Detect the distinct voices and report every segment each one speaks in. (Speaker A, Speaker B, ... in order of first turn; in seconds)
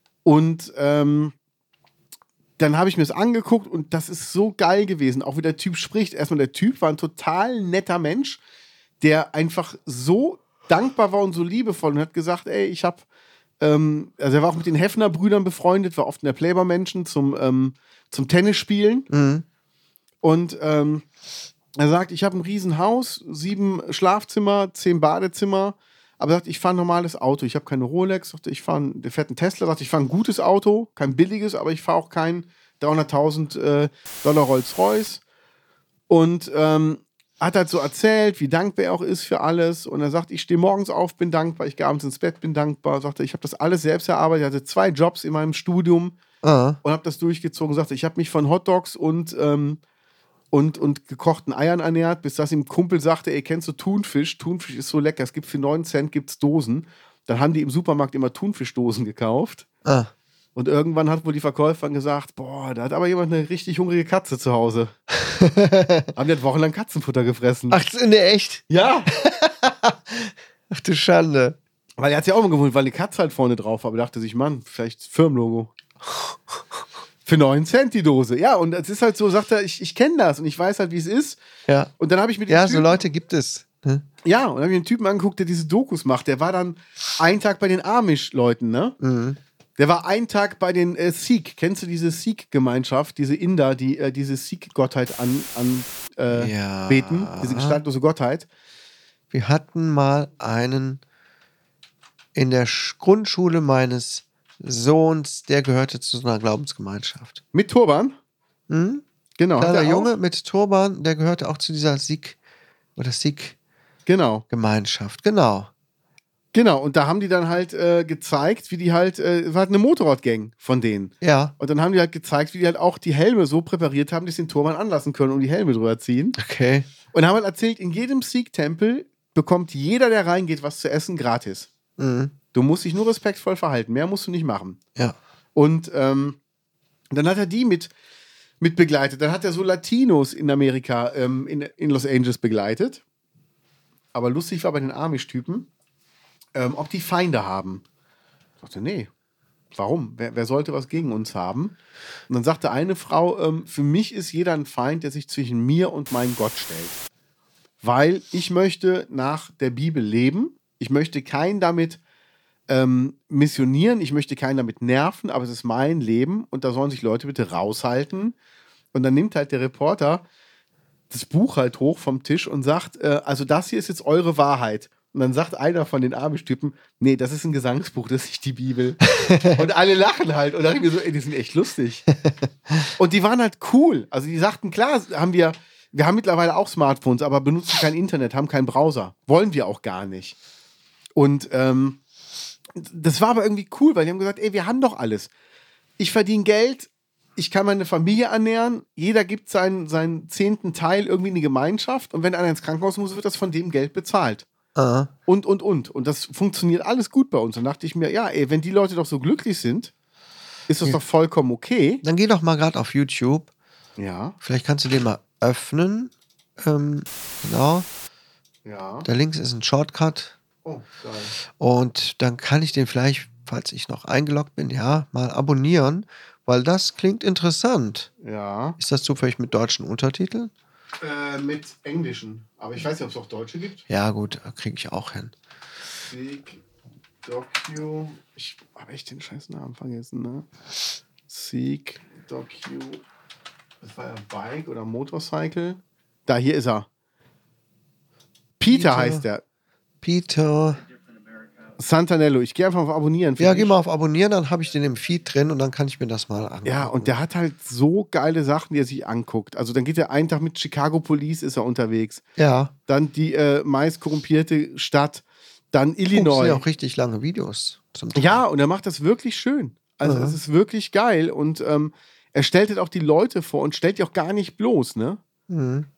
Speaker A: 0.2-1.3, 2.6-8.4, 9.0-13.0, 13.6-19.1, 20.2-21.1, 21.8-35.2, 36.1-46.2, 46.8-49.8, 50.5-59.7, 60.6-64.9, 66.1-67.8, 68.7-69.1, 72.0-75.7, 77.3-81.4, 82.0-83.0, 84.2-89.0, 89.8-98.5, 107.5-108.2, 109.4-110.1, 114.1-114.4, 116.5-126.4, 127.1-131.7, 132.5-134.8, 135.6-136.4, 137.1-137.9, 138.6-143.0, 144.1-145.7, 146.6-147.8, 148.6-149.1, 149.8-151.8, 152.3-157.0, 157.8-162.0, 162.7-168.3, 168.9-170.2, 171.1-182.1, 183.0-190.4, 191.2-192.0, 192.8-195.3, 196.0-204.5, 205.3-209.9, 210.7-212.0, 214.0-214.4, 218.7-219.1, 220.7-221.3, 228.2-228.8, 231.0-233.8, 236.0-236.6, 237.2-240.5, 241.3-243.0, 243.8-246.9, 248.6-249.4, 251.8-253.8, 256.6-262.2, 262.9-266.6, 268.2-275.2
Speaker B: 19.1-19.4, 46.4-46.8, 59.8-60.1, 65.3-66.1, 67.7-71.6, 76.1-76.6, 81.7-81.9, 82.5-84.0, 89.0-89.4, 96.3-97.8, 99.3-101.0, 102.3-107.4, 108.7-109.0, 109.6-112.4, 113.0-113.6, 114.5-115.7, 121.2-121.5, 126.4-126.9, 132.0-132.3, 179.2-179.6, 204.8-205.1, 212.0-213.5, 214.4-217.9, 219.1-220.4, 221.6-228.1, 228.8-230.5, 233.9-235.3, 248.7-249.2, 250.0-250.8, 253.4-257.2, 262.4-262.7, 266.1-268.4, 270.0-270.4, 275.5-275.9